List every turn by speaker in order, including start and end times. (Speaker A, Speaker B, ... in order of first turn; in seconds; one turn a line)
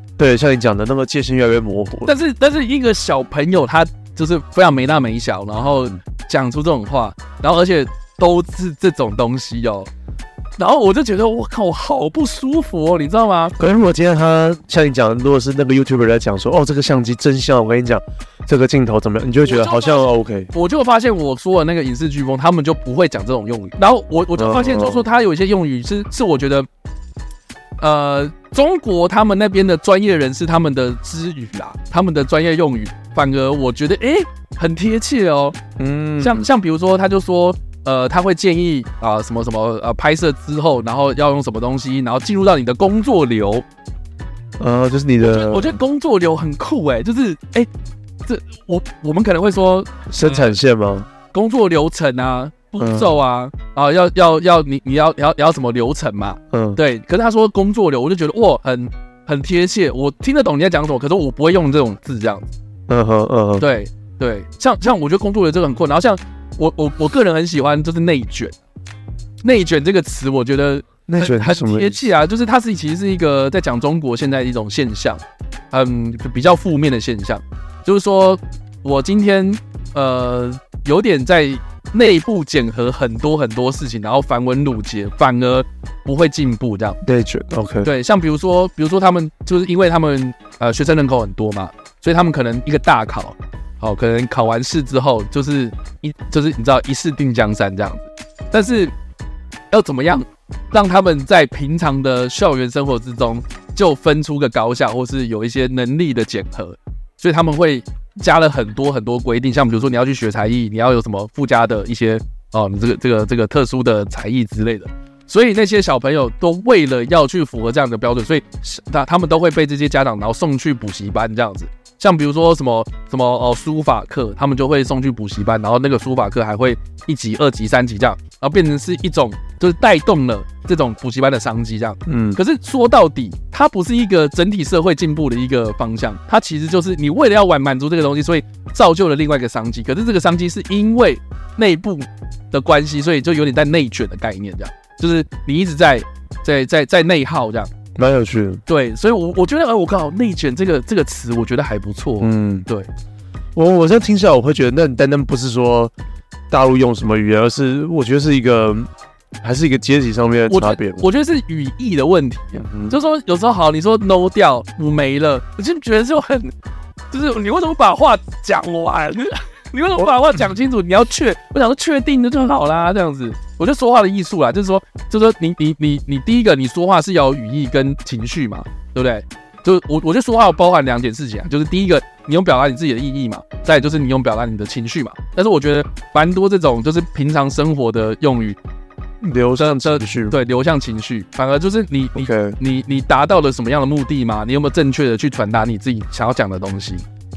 Speaker A: 0.2-2.1
Speaker B: 2.0-9.9
Speaker B: 10.6-13.5
Speaker A: 13.6-20.5
Speaker B: 19.4-26.7
Speaker A: 24.4-25.0
Speaker B: 27.8-35.6
Speaker A: 35.8-36.5
Speaker B: 36.2-43.6
Speaker A: 44.6-45.8
Speaker B: 45.2-47.7
Speaker B: 48.2-50.5
Speaker A: 50.1-51.1
Speaker B: 51.3-62.5
Speaker A: 52.8-53.1
Speaker A: 56.5-56.8
Speaker A: 62.9-63.7
Speaker B: 63.6-68.6
Speaker B: 69.4-75.2
Speaker A: 71.1-72.0
Speaker B: 75.7-87.0
Speaker A: 87.0-87.9
Speaker B: 87.8-98.9
Speaker B: 99.7-147.7
Speaker A: 132.1-132.4
Speaker A: 147.9-148.6
Speaker B: 148.7-152.9
Speaker A: 152.2-152.7
Speaker A: 153.5-155.9
Speaker A: 156.5-158.9
Speaker A: 159.4-161.0
Speaker B: 160.5-166.5
Speaker A: 162.6-163.0
Speaker B: 167.1-188.6
Speaker A: 189.2-190.3
Speaker B: 189.6-197.0
Speaker A: 192.2-192.6